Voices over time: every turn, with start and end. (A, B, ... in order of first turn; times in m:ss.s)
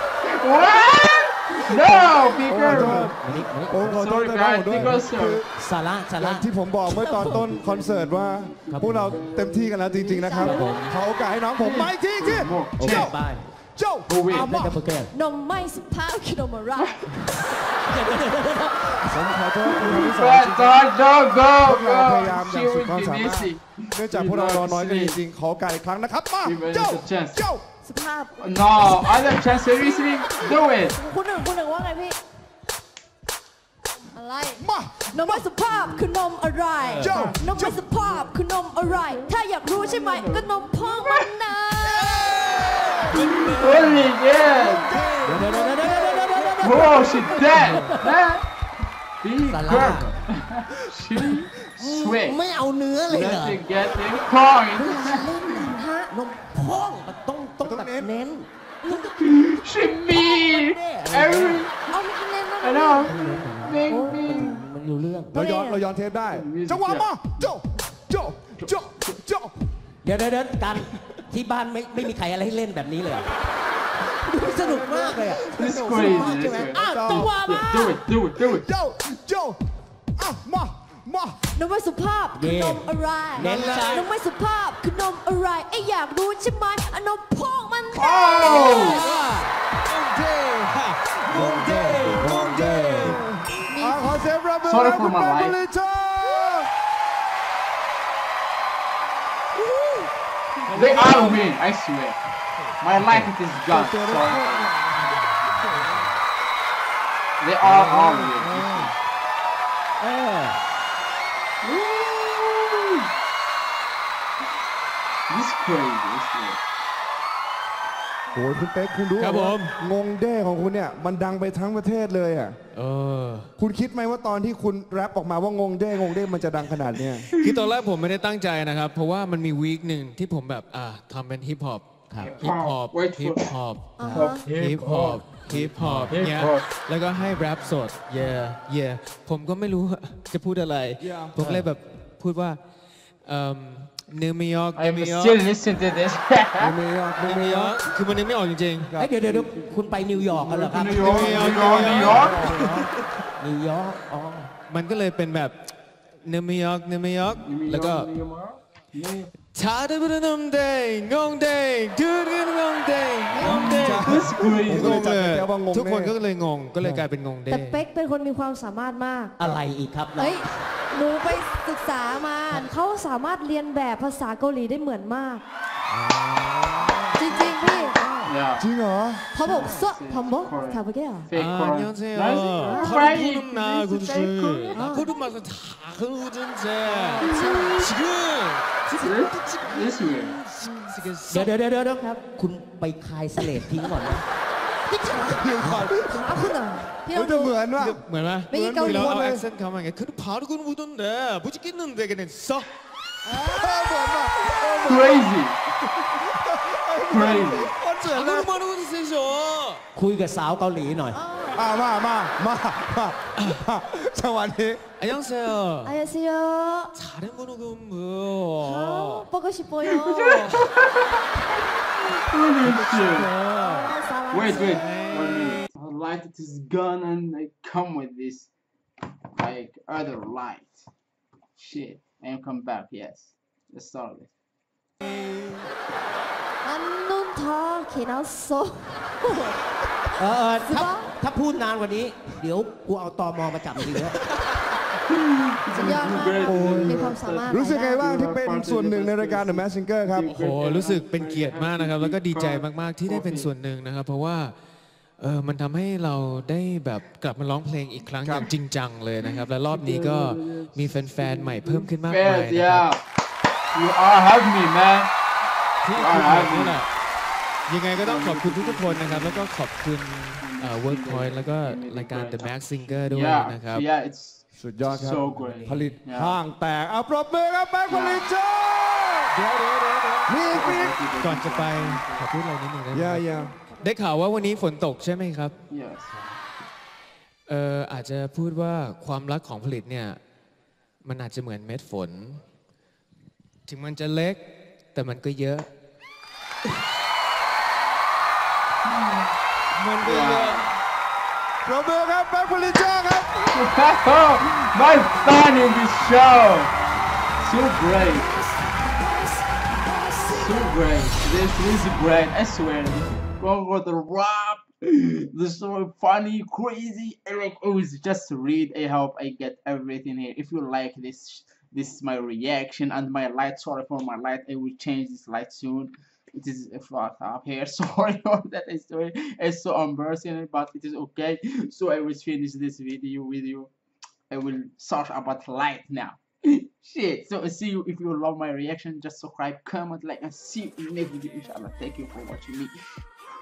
0:00.2-0:03.2 A
0:01.8-0:03.1 B
0:02.5-0:03.8 C
0:03.7-0:05.5 B
0:03.7-0:05.4 A
0:05.6-0:06.5 C
0:06.2-0:13.2 B
0:06.8-0:07.5 D
0:07.4-0:10.4 A
0:08.7-0:09.2 C
0:10.1-0:10.9 D
0:10.4-0:11.0 C
0:11.6-0:13.1 A
0:12.8-0:13.4 C
0:13.8-0:14.8 B
0:14.1-0:14.5 A
0:14.3-0:15.1 C
0:15.1-0:17.1 D
0:17.5-0:19.2 C
0:19.0-0:20.8 B
0:19.6-0:25.2 A
0:21.6-0:27.6 B
0:26.4-0:27.4 A
0:27.8-0:32.2 D
0:28.4-0:31.0 A
0:34.1-0:42.4 D
0:34.6-0:35.4 B
0:35.7-0:36.0 A
0:36.8-0:37.2 C
0:37.0-0:37.8 B
0:37.0-0:37.4 A
0:38.9-0:41.4 A
0:41.8-0:44.1 E
0:42.0-0:43.0 B
0:43.1-0:44.9 A
0:44.4-0:47.8 B
0:45.2-0:48.1 C
0:46.6-0:48.4 A
0:49.2-0:52.4 A
0:49.4-0:50.1 C
0:51.8-0:53.6 C
0:53.1-0:55.8 A
0:54.8-0:56.1 D
0:54.9-0:55.4 C
0:56.1-0:59.6 C
0:57.6-0:58.1 B
0:58.8-0:59.1 D
0:59.2-1:01.9 A
1:00.1-1:01.6 C
1:01.9-1:04.2 D
1:02.6-1:04.6 A
1:03.0-1:05.4 C
1:05.3-1:09.5 B
1:05.4-1:05.9 D
1:06.3-1:07.6 A
1:08.6-1:09.2 A
1:10.0-1:13.3 C
1:14.2-1:18.0 C
1:14.4-1:17.5 B
1:15.5-1:18.7 A
1:16.9-1:17.4 D
1:18.4-1:19.6 B
1:20.2-1:21.4 B
1:21.6-1:29.0 D
1:22.4-1:24.1 C
1:23.4-1:24.1 E
1:28.0-1:28.4 B
1:28.0-1:29.0 A
1:28.5-1:33.2 E
1:28.6-1:29.5 C
1:31.3-1:33.2 C
1:31.3-1:32.6 A
1:33.0-1:36.7 B
1:33.6-1:34.2 D
1:34.6-1:35.6 A
1:39.6-1:40.1 D
1:40.7-1:42.2 A
1:40.7-1:41.3 E
1:42.8-1:44.7 A
1:43.8-1:45.1 B
1:47.4-1:49.0 A
1:47.6-1:48.9 C
1:50.0-1:50.6 C
1:51.6-1:53.1 A
1:55.3-1:56.6 A
1:58.3-2:02.6 B
1:59.2-1:59.7 E
2:02.7-2:03.5 E
2:03.6-2:07.3 B
2:07.1-2:07.6 A
2:07.4-2:22.6 E
2:12.1-2:12.4 C
2:12.2-2:13.5 A
2:14.0-2:14.5 D
2:14.1-2:16.7 A
2:21.0-2:21.4 B
2:21.4-2:21.7 C
2:23.2-2:25.4 E
2:24.7-2:26.7 A
2:26.6-2:27.8 B
2:27.2-2:28.9 E
2:28.8-2:29.1 B
2:29.0-2:32.9 C
2:29.2-2:32.8 A
2:31.0-2:32.7 B
2:31.1-2:32.5 E
2:33.4-2:34.5 C
2:34.7-2:35.6 E
2:36.2-2:38.1 E
2:37.4-2:39.3 A
2:39.5-2:47.8 E
2:43.3-2:43.8 D
2:43.4-2:45.1 A
2:43.6-2:46.2 B
2:47.5-2:49.4 D
2:49.4-2:50.5 C
2:50.1-2:55.4 D
2:55.9-2:58.3 C
2:57.1-2:58.0 D
2:58.2-2:58.7 A
2:58.6-2:59.2 B
2:59.3-3:01.3 D
2:59.3-3:04.7 A
3:01.3-3:11.5 E
3:02.6-3:03.1 D
3:04.3-3:05.2 D
3:06.8-3:07.9 D
3:07.2-3:07.9 A
3:09.0-3:09.7 D
3:09.0-3:10.4 A
3:10.6-3:10.9 D
3:11.3-3:14.2 C
3:13.4-3:13.9 D
3:14.9-3:17.6 D
3:15.3-3:16.6 B
3:15.6-3:15.9 C
3:17.1-3:19.4 B
3:17.7-3:22.7 E
3:18.5-3:19.2 D
3:23.3-3:23.9 D
3:23.3-3:25.3 B
3:24.6-3:25.6 A
3:25.9-3:28.6 B
3:27.1-3:27.7 A
3:28.0-3:29.8 E
3:29.9-3:31.2 C
3:31.1-3:31.7 D
3:31.5-3:34.8 B
3:33.4-3:33.6 E
3:35.0-3:36.0 E
3:35.8-3:36.9 D
3:36.9-3:39.3 E
3:38.6-3:40.6 D
3:39.8-3:41.1 A
3:42.3-3:43.3 A
3:42.6-3:45.5 E
3:43.4-3:45.6 D
3:44.3-3:48.5 A
3:49.3-3:50.8 A
3:51.6-3:54.3 A
3:55.0-3:55.6 E
3:56.6-3:59.6 D
4:00.2-4:04.2 C
4:00.5-4:01.2 D
4:05.1-4:13.5 A
4:05.7-4:08.0 D
4:06.4-4:10.3 B
4:10.3-4:14.5 E
4:15.2-4:22.9 E
4:18.2-4:18.5 B
4:19.2-4:23.0 A
4:23.7-4:25.1 A
4:25.8-4:26.9 E
4:25.9-4:26.8 A
4:27.7-4:33.8 E
4:27.9-4:29.6 A
4:30.4-4:36.4 A
4:34.5-4:39.4 B
4:35.3-4:35.9 E
4:37.9-4:38.3 A
4:39.3-4:40.4 E
4:40.3-4:41.0 B
4:40.5-4:42.3 A
4:41.2-4:43.3 E
4:42.9-4:43.5 B
4:43.3-4:43.8 D
4:43.8-4:45.6 E
4:45.7-4:46.4 A
4:47.5-4:50.2 E
4:51.0-4:52.4 E
4:53.7-4:54.4 E
4:54.9-4:55.7 E
4:58.8-4:59.3 A
4:59.7-5:00.6 E
5:00.0-5:00.7 A
5:01.6-5:03.5 B
5:03.5-5:06.7 A
5:07.4-5:08.3 A
5:07.8-5:10.9 D
5:10.3-5:33.7 A
5:34.3-5:43.1 A